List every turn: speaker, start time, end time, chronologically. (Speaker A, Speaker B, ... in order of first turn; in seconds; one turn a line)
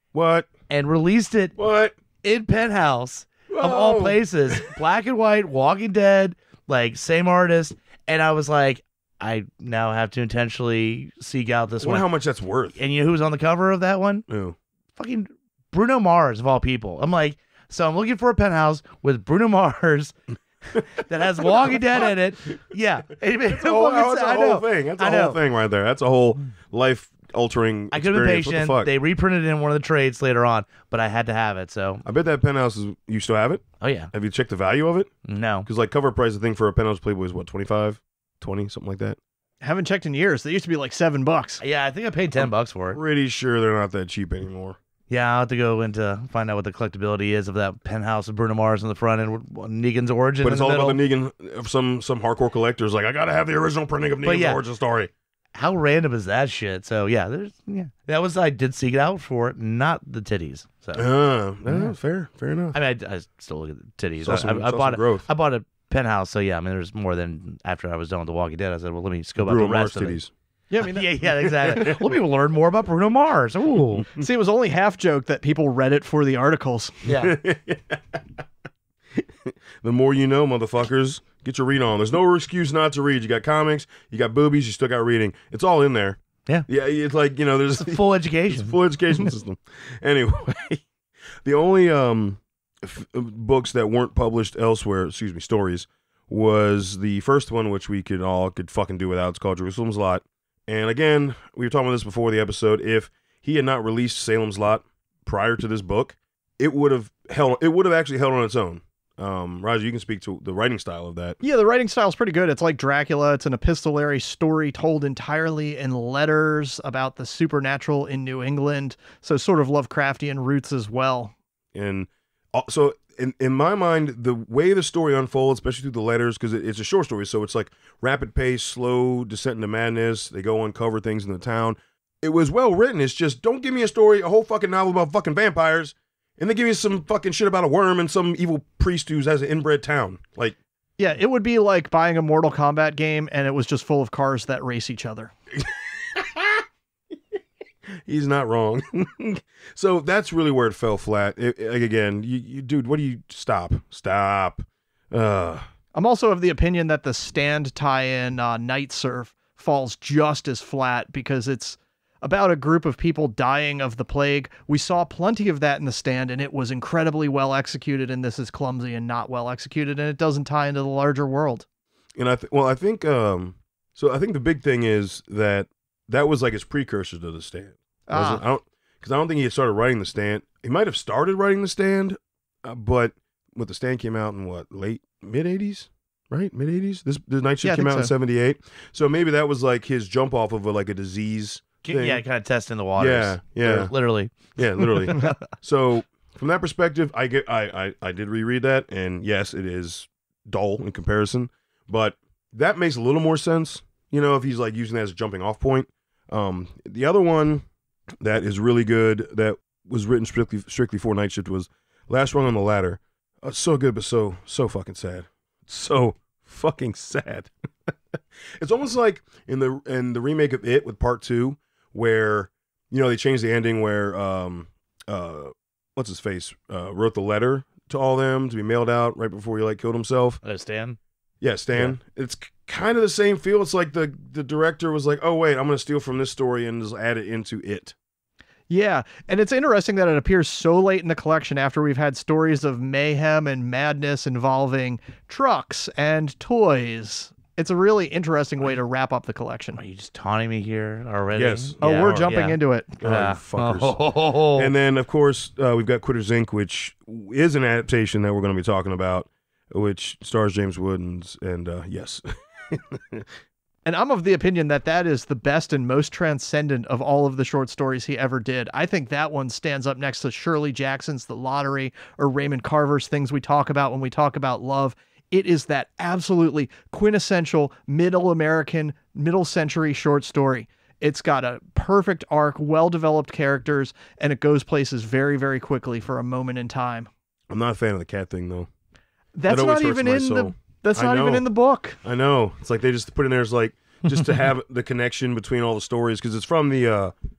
Speaker A: 0.1-0.5
Speaker B: 0.7-1.6
Speaker A: 1.6-2.0
Speaker B: 2.2-12.1
Speaker A: 3.5-4.6
Speaker A: 11.8-12.8
Speaker B: 12.8-14.3
Speaker A: 14.3-14.6
Speaker B: 15.0-20.1
Speaker B: 21.0-25.4
Speaker A: 21.4-22.1
Speaker A: 23.5-28.9
Speaker B: 27.9-32.0
Speaker A: 32.0-35.1
Speaker B: 33.8-34.1
Speaker B: 35.3-35.7
Speaker A: 35.6-39.2
Speaker C: 39.6-41.6
Speaker B: 41.6-43.0
Speaker A: 42.3-44.8
Speaker B: 45.1-51.0
Speaker A: 50.4-55.1
Speaker B: 54.2-54.6
Speaker B: 55.5-61.0
Speaker A: 61.0-62.8
Speaker B: 61.7-61.9
Speaker B: 62.7-70.2
Speaker A: 64.2-65.3
Speaker A: 69.4-70.3
Speaker C: 70.7-71.9
Speaker B: 70.8-74.1
Speaker A: 71.5-72.0
Speaker C: 74.2-77.0
Speaker B: 77.0-77.3
Speaker A: 77.2-78.2
Speaker A: 79.2-90.8
Speaker B: 87.8-88.8
Speaker A: 91.4-111.4
Speaker C: 111.4-121.3
Speaker A: 121.7-140.6
Speaker C: 141.0-145.3
Speaker A: 145.6-146.5
Speaker A: 148.1-155.7
Speaker C: 155.9-171.7
Speaker A: 172.2-192.2
Speaker C: 178.1-178.4
Speaker C: 187.6-188.1
Speaker B: 191.8-195.2
Speaker A: 193.0-193.9
Speaker A: 194.6-207.7
Speaker A: 208.2-217.9
Speaker A: 218.6-230.4
Speaker B: 230.4-231.0
Speaker A: 231.4-237.9
Speaker C: 238.7-249.8
Speaker B: 249.8-254.7
Speaker A: 251.3-252.3
Speaker C: 251.8-252.9
Speaker A: 253.0-254.0
Speaker A: 254.6-263.3
Speaker C: 263.9-287.1
Speaker A: 287.5-288.7
Speaker C: 289.3-292.0
Speaker A: 289.5-291.4
Speaker A: 292.0-297.1